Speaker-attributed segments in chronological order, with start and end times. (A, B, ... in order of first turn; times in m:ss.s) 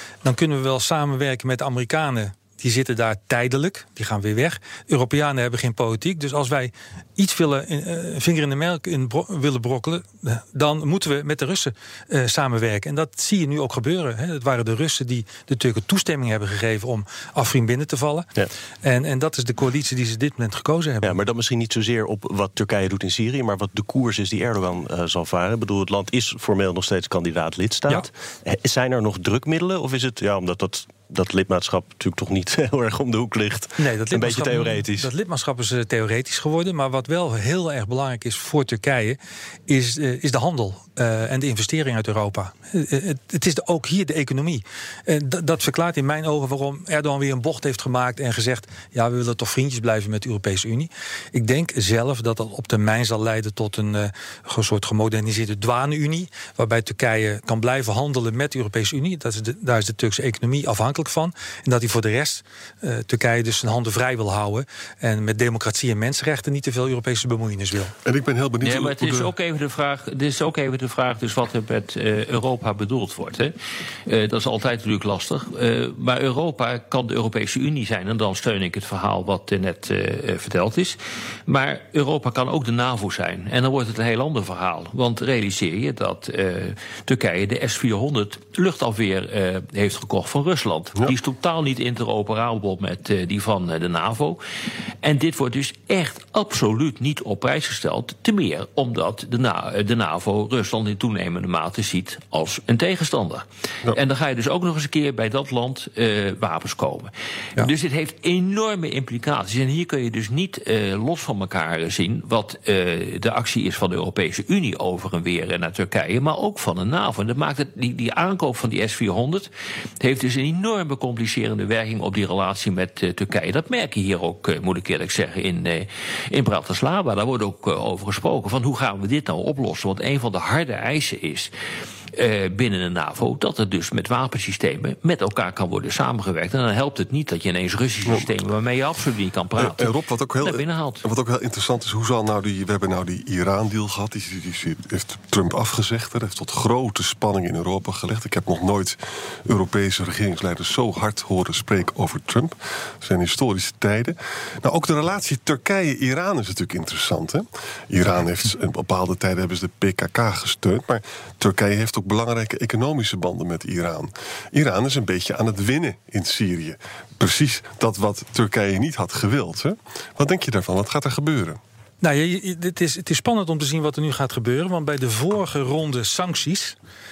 0:00.2-0:18.3 A
0:18.8-0:21.1 A
0:21.0-0:35.1 B
0:33.8-1:07.9 A
1:08.0-1:09.3 C
1:08.6-1:13.5 D
1:14.1-1:34.4 D
1:35.0-1:59.5 D
2:00.0-2:11.5 D
2:12.1-2:21.0 D
2:19.6-2:51.6 C
2:52.0-2:56.8 A